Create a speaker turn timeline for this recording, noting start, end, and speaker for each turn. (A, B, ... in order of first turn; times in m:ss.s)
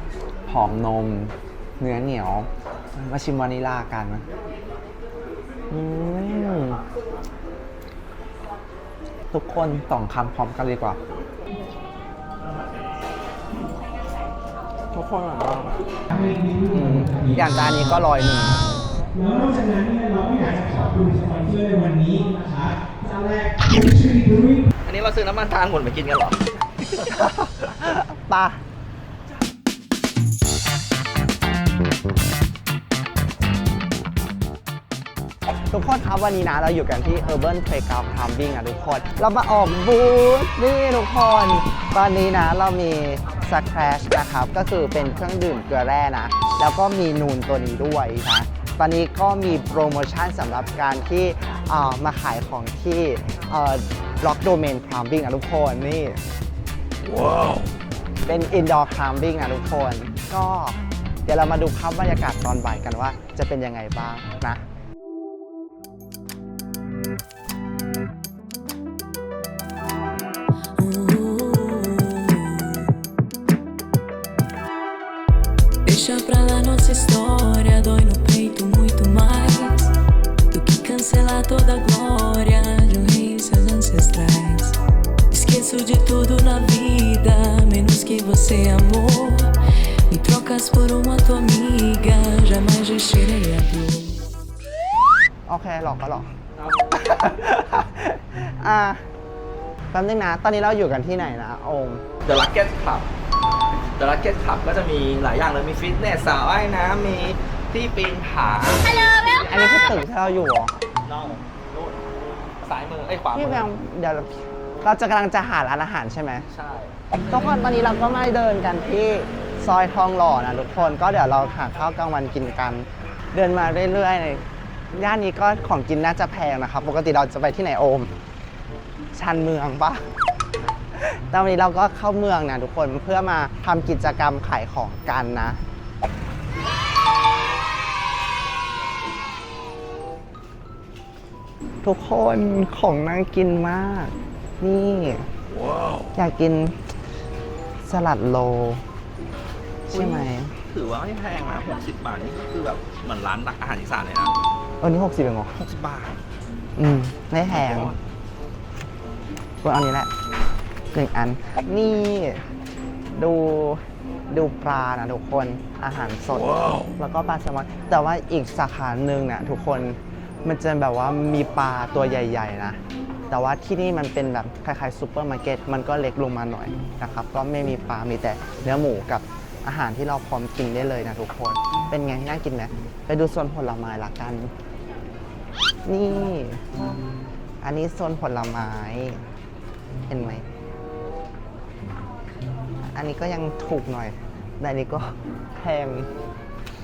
0:00.5-0:04.2 A
0:05.7-0:06.8 A
0:09.3-0:11.0 A
0:14.9-0:15.8 A
0:16.1-0:24.7 B
0:16.7-0:18.6 A
0:24.8-0:27.1 C
0:27.0-0:28.6 A
0:35.7-0:56.2 A
0:58.3-1:04.6 A
1:10.8-1:12.9 D
1:15.8-1:19.9 D
1:20.5-1:24.8 D
1:25.3-1:29.6 D
1:30.1-1:34.2 D
1:35.5-1:36.3 A
1:36.9-1:39.1 A
1:39.9-1:42.0 A
1:42.2-1:43.1 C
1:44.0-1:49.3 C
1:49.4-1:50.7 A
1:51.0-1:52.0 C
1:52.6-1:53.7 C
1:53.3-1:56.5 A
1:56.5-1:56.9 C
1:57.3-2:08.1 A
2:09.1-2:10.0 A
2:11.0-2:15.6 A
2:21.8-2:25.3 A
2:25.6-2:26.0 C
2:26.2-2:26.8 A
2:27.8-2:28.8 A
2:29.9-2:34.4 C
2:29.9-2:30.5 A
2:34.8-2:35.6 A
2:35.6-2:36.2 C
2:36.8-2:38.0 A
2:37.5-2:38.0 C
2:39.6-2:40.1 A
2:40.9-2:42.4 A
2:43.2-3:04.5 A
3:05.8-3:06.6 A
3:07.6-3:09.2 A
3:10.1-3:10.5 A
3:12.9-3:16.1 A